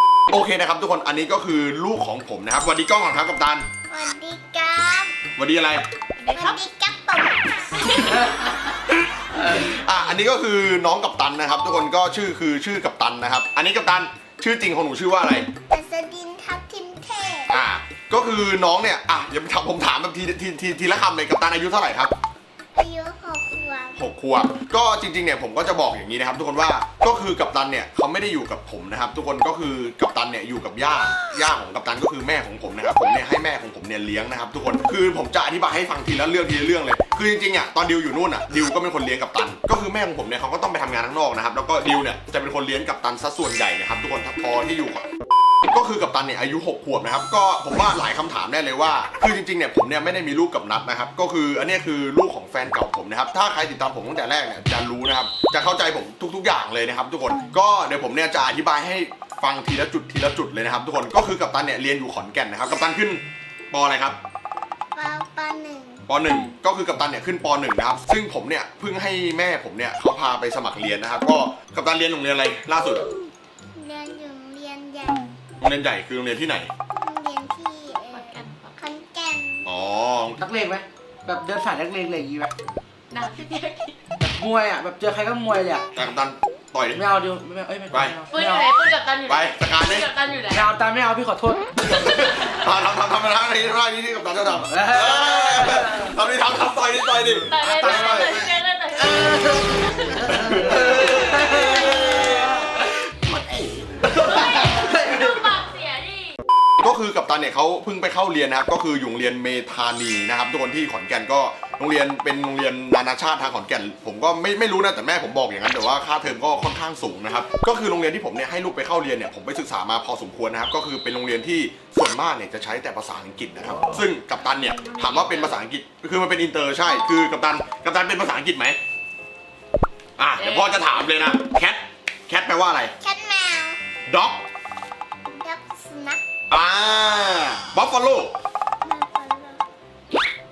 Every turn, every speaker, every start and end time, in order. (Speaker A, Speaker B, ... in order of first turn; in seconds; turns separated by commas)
Speaker A: 0.3-3.7, Speaker B: 3.9-5.2, Speaker A: 5.3-5.9, Speaker C: 6.2-6.6, Speaker B: 6.3-8.0, Speaker A: 9.2-15.5, Speaker B: 15.7-17.6, Speaker A: 17.5-22.1, Speaker B: 22.7-23.9, Speaker A: 23.9-45.0, Speaker A: 45.7-64.2, Speaker B: 64.9-66.0, Speaker A: 66.1-73.1, Speaker B: 73.7-75.3, Speaker A: 75.6-76.7, Speaker B: 77.0-79.7, Speaker C: 78.1-78.8, Speaker A: 79.6-80.4, Speaker D: 80.4-82.5, Speaker C: 83.1-84.0, Speaker D: 84.2-85.8, Speaker A: 85.9-87.0, Speaker D: 86.9-88.7, Speaker A: 87.9-88.2, Speaker C: 88.3-90.7, Speaker A: 89.2-90.1, Speaker D: 90.5-91.7, Speaker A: 91.8-98.5, Speaker D: 94.7-96.1, Speaker C: 97.5-102.2, Speaker D: 99.0-102.8, Speaker A: 100.2-102.8, Speaker D: 103.3-103.7, Speaker A: 103.9-105.1, Speaker C: 104.1-106.3, Speaker D: 104.6-105.3, Speaker A: 106.8-128.8, Speaker C: 124.4-125.6, Speaker A: 130.2-132.9, Speaker C: 130.3-130.9, Speaker B: 133.0-133.8, Speaker A: 134.1-134.4, Speaker B: 135.3-136.2, Speaker A: 136.5-138.3, Speaker B: 138.8-139.6